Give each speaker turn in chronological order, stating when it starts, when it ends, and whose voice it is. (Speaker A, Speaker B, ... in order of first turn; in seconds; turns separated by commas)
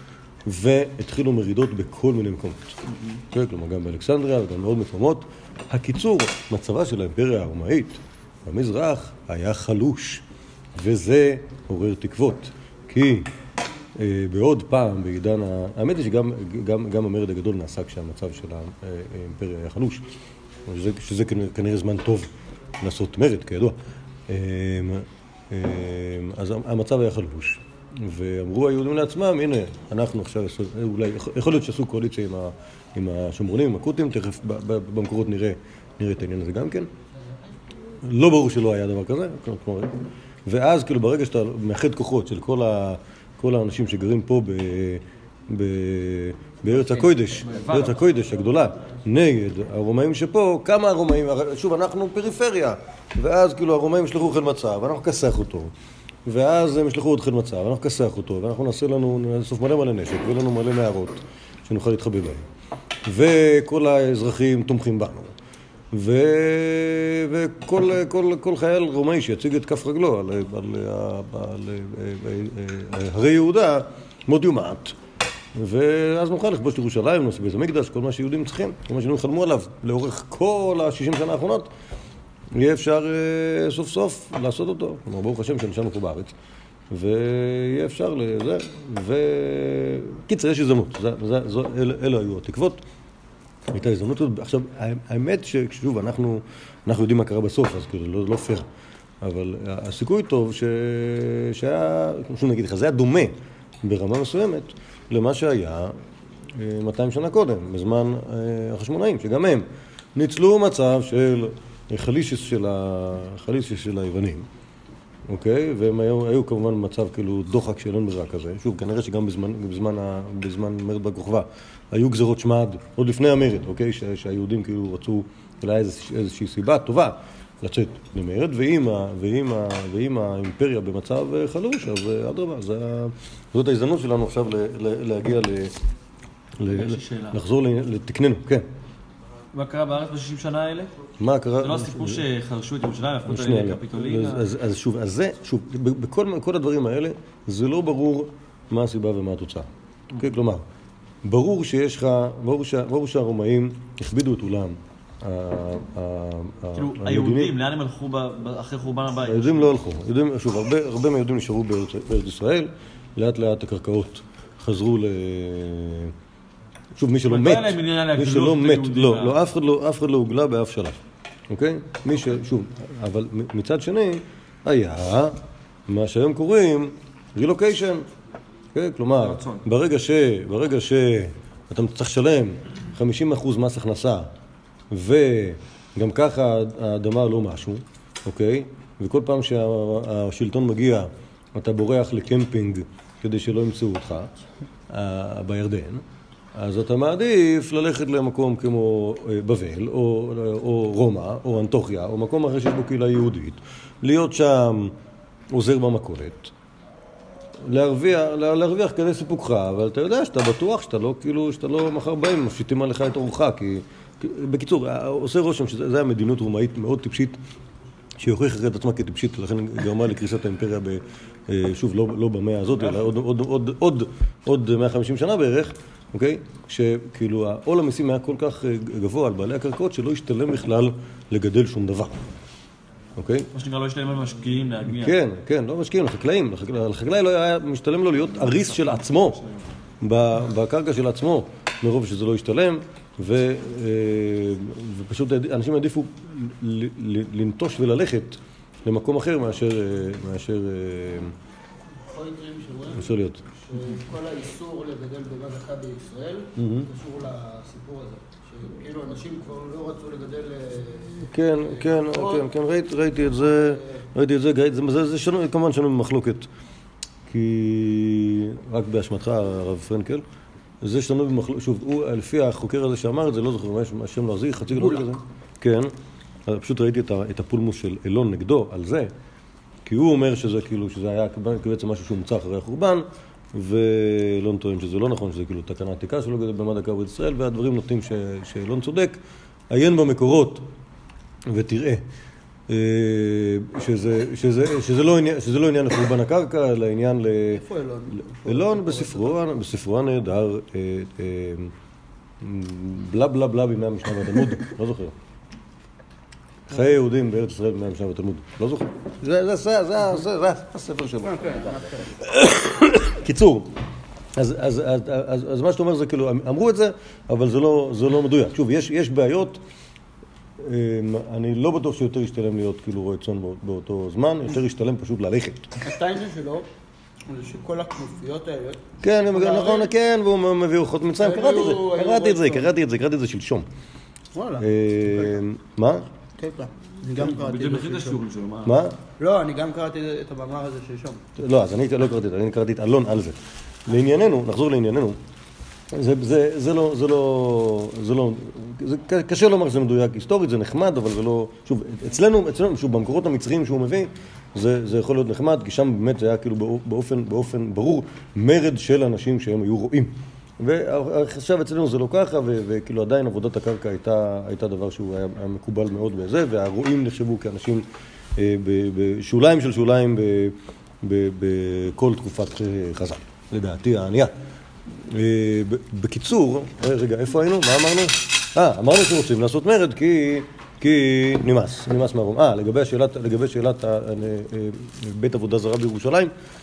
Speaker A: 0.5-2.8, Speaker B: 2.9-3.2, Speaker A: 3.3-10.2, Speaker A: 10.7-13.3, Speaker A: 14.0-20.0, Speaker A: 20.7-23.8, Speaker A: 24.3-36.9, Speaker A: 38.0-39.9, Speaker A: 40.5-55.7, Speaker B: 46.8-47.9, Speaker A: 56.2-62.5, Speaker A: 63.0-65.3, Speaker A: 65.9-75.0, Speaker A: 75.5-81.7, Speaker A: 82.5-86.3, Speaker A: 86.9-92.8, Speaker A: 93.7-98.7, Speaker A: 99.2-105.9, Speaker A: 106.5-114.5, Speaker A: 115.3-135.7, Speaker A: 136.6-138.7, Speaker B: 136.7-137.4, Speaker B: 139.5-140.9, Speaker A: 141.2-142.2, Speaker B: 141.6-144.4, Speaker A: 143.3-150.6, Speaker A: 151.2-157.5, Speaker B: 156.7-159.8, Speaker A: 159.2-166.1, Speaker A: 166.9-171.0, Speaker B: 167.3-169.4, Speaker A: 171.5-178.1, Speaker A: 178.7-184.3, Speaker B: 179.2-179.6, Speaker A: 184.9-194.3, Speaker A: 194.9-196.0, Speaker A: 196.5-204.9, Speaker A: 205.5-206.5, Speaker A: 207.6-217.4, Speaker A: 218.2-232.2, Speaker A: 233.2-233.5, Speaker B: 233.5-235.1, Speaker A: 234.9-239.4, Speaker A: 240.0-251.3, Speaker C: 252.0-253.1, Speaker A: 252.9-253.4, Speaker C: 253.7-262.5, Speaker A: 256.6-256.9, Speaker A: 261.3-266.5, Speaker C: 263.3-263.8, Speaker A: 267.3-270.2, Speaker A: 270.8-275.9, Speaker A: 276.5-279.1, Speaker A: 279.9-289.2, Speaker A: 289.7-290.6, Speaker A: 291.5-292.0, Speaker A: 292.7-301.7, Speaker C: 297.5-299.3, Speaker A: 302.4-305.1, Speaker A: 306.7-311.5, Speaker C: 311.2-312.1, Speaker A: 312.1-313.7, Speaker A: 314.4-319.6, Speaker A: 320.6-325.7, Speaker C: 325.8-326.7, Speaker C: 327.3-329.9, Speaker A: 329.0-333.7, Speaker C: 331.2-332.7, Speaker C: 334.3-334.7, Speaker A: 334.6-336.1, Speaker C: 336.4-338.2, Speaker B: 337.1-338.8, Speaker A: 338.6-338.9, Speaker C: 339.2-341.2, Speaker A: 341.4-345.2, Speaker A: 345.9-367.8, Speaker A: 368.4-374.3, Speaker A: 375.1-386.3